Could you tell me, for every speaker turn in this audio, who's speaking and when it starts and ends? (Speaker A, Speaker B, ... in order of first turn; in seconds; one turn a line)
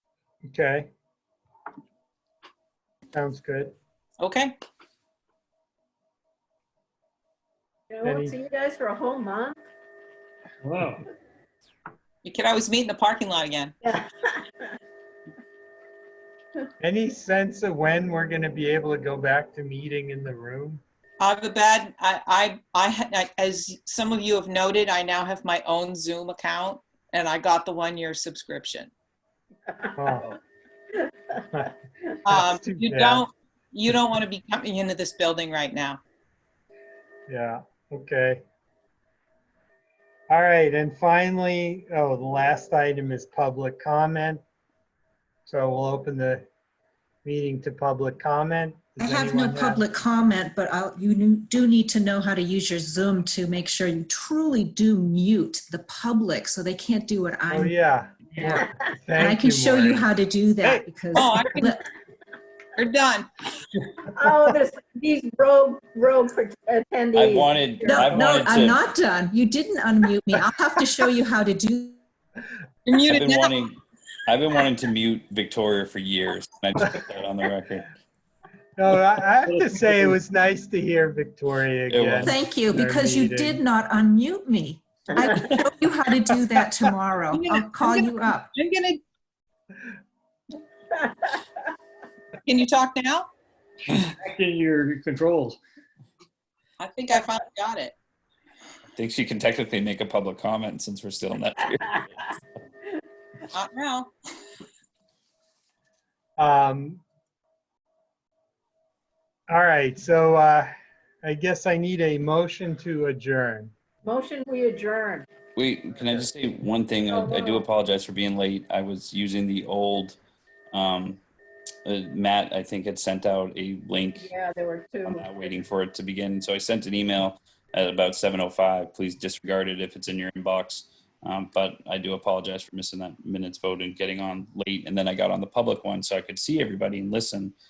Speaker A: 0.5-0.9
Speaker A: 3.1-3.7
Speaker B: 4.2-4.6
Speaker C: 7.9-9.6
Speaker A: 8.0-8.4
Speaker D: 10.6-11.0
Speaker B: 12.2-13.7
Speaker C: 13.8-14.7
Speaker A: 16.8-20.8
Speaker B: 21.2-28.9
Speaker A: 30.0-30.4
Speaker B: 32.2-36.0
Speaker A: 32.3-33.2
Speaker A: 37.3-38.4
Speaker A: 40.3-44.4
Speaker A: 45.5-46.5
Speaker A: 47.2-49.8
Speaker E: 49.0-57.7
Speaker A: 57.5-60.1
Speaker E: 58.3-58.7
Speaker E: 59.2-61.8
Speaker B: 61.2-61.8
Speaker B: 62.8-63.3
Speaker C: 64.0-68.2
Speaker F: 67.1-68.8
Speaker E: 67.8-72.0
Speaker B: 72.9-73.5
Speaker F: 73.1-77.9
Speaker A: 78.8-83.6
Speaker D: 79.5-80.2
Speaker F: 81.9-82.4
Speaker E: 82.2-88.5
Speaker B: 87.3-89.0
Speaker B: 92.5-93.3
Speaker D: 93.9-95.6
Speaker B: 96.8-98.0
Speaker F: 99.0-102.2
Speaker B: 103.5-104.1
Speaker A: 106.4-107.0
Speaker A: 109.5-110.7
Speaker A: 111.2-113.7
Speaker C: 114.0-115.3
Speaker F: 115.6-120.2
Speaker C: 117.1-117.7
Speaker F: 120.7-121.2
Speaker F: 121.9-124.3
Speaker C: 124.2-125.4
Speaker F: 125.0-137.5